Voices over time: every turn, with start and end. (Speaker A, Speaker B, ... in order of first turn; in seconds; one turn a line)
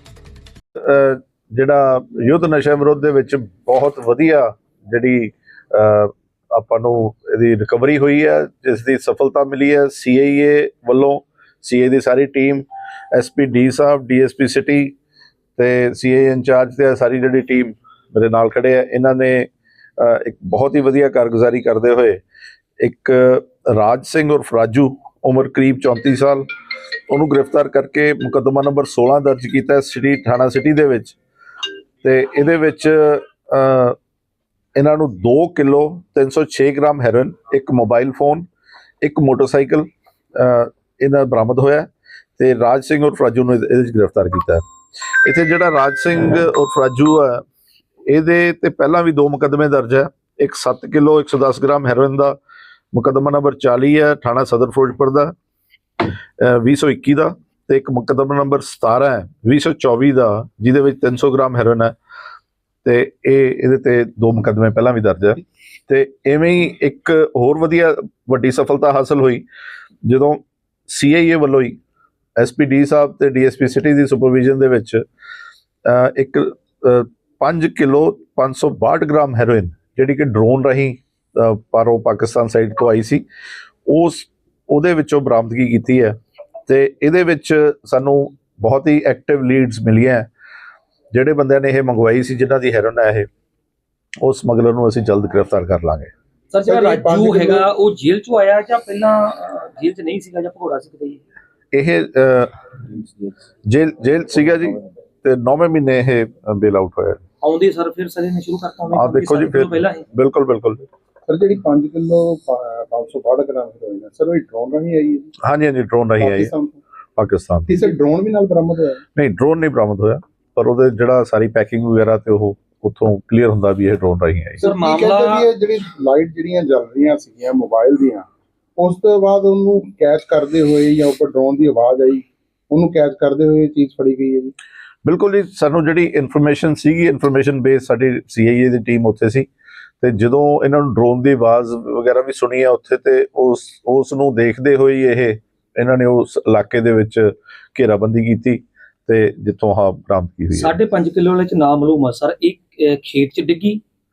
Speaker A: 0.8-14.9
Speaker A: 15.6-22.2
Speaker A: 22.8-26.5
Speaker A: 27.1-31.2
Speaker A: 32.0-34.0
Speaker A: 34.8-38.5
Speaker A: 39.0-47.4
Speaker A: 48.1-52.4
Speaker A: 52.9-55.3
Speaker A: 56.4-62.0
Speaker A: 62.8-69.5
Speaker A: 70.0-71.8
Speaker A: 72.4-75.0
Speaker A: 75.8-83.2
Speaker A: 83.9-86.2
Speaker A: 86.7-90.3
Speaker A: 91.1-93.3
Speaker A: 94.2-96.1
Speaker B: 96.5-101.2
Speaker C: 96.7-97.7
Speaker A: 101.7-103.0
Speaker A: 103.7-107.2
Speaker B: 107.4-110.0
Speaker A: 108.9-110.9
Speaker C: 111.3-115.3
Speaker A: 115.4-116.5
Speaker C: 116.2-116.8
Speaker A: 117.2-117.7
Speaker C: 117.7-119.0
Speaker A: 119.2-124.6
Speaker B: 124.6-125.5
Speaker C: 124.6-128.3
Speaker C: 128.8-134.5
Speaker A: 135.0-139.5
Speaker A: 140.0-150.8
Speaker B: 150.5-153.8